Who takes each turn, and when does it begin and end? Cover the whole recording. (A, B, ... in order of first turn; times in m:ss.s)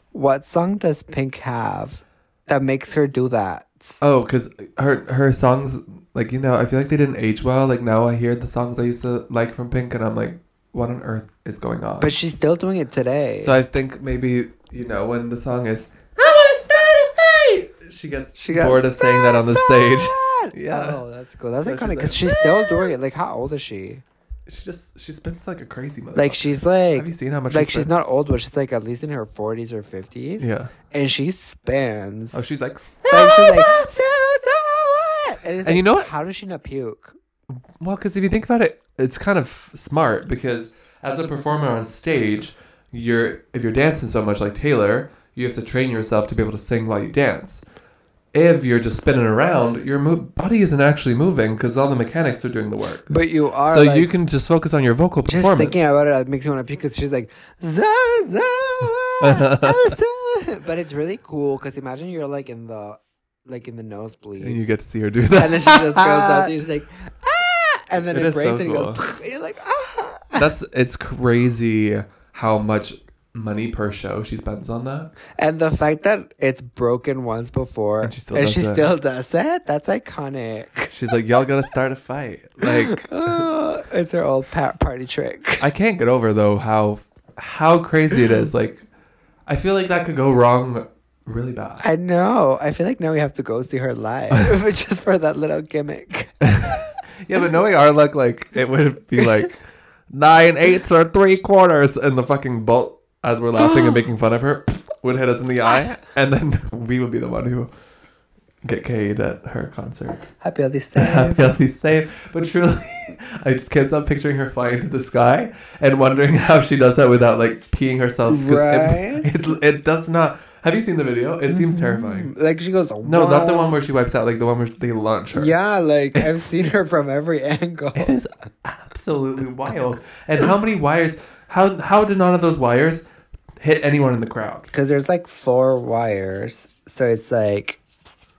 0:00.1-0:03.9 A
0:04.0-0:12.1 B
0:12.0-0:13.6 A
0:13.4-0:21.0 B
0:18.4-0:24.0 A
0:21.6-0:22.9 B
0:24.4-0:28.0 B
0:26.1-0:32.5 A
0:30.4-0:30.7 B
0:32.3-0:33.9 B
0:33.1-0:37.2 A
0:35.6-0:36.1 B
0:37.8-0:47.6 B
0:48.3-0:55.9 B
0:53.1-0:54.1 A
0:55.2-1:04.8 A
0:59.2-1:00.0 B
1:04.4-1:06.6 B
1:05.3-1:10.5 A
1:08.0-1:09.0 B
1:10.4-1:15.1 B
1:15.4-1:20.9 A
1:18.0-1:18.9 B
1:20.9-1:23.4 B
1:22.6-1:25.7 A
1:25.6-1:28.9 B
1:29.4-1:31.8 B
1:31.8-1:36.9 A
1:36.4-1:39.6 B
1:40.1-1:47.7 B
1:43.6-1:43.9 A
1:48.6-1:50.3 B
1:50.4-1:51.5 A
1:51.0-2:02.3 B
1:58.3-1:59.4 A
2:01.5-2:03.8 A
2:03.0-2:05.5 B
2:05.3-2:08.1 A
2:07.9-2:13.0 B
2:13.6-2:14.7 B
2:14.7-2:17.8 A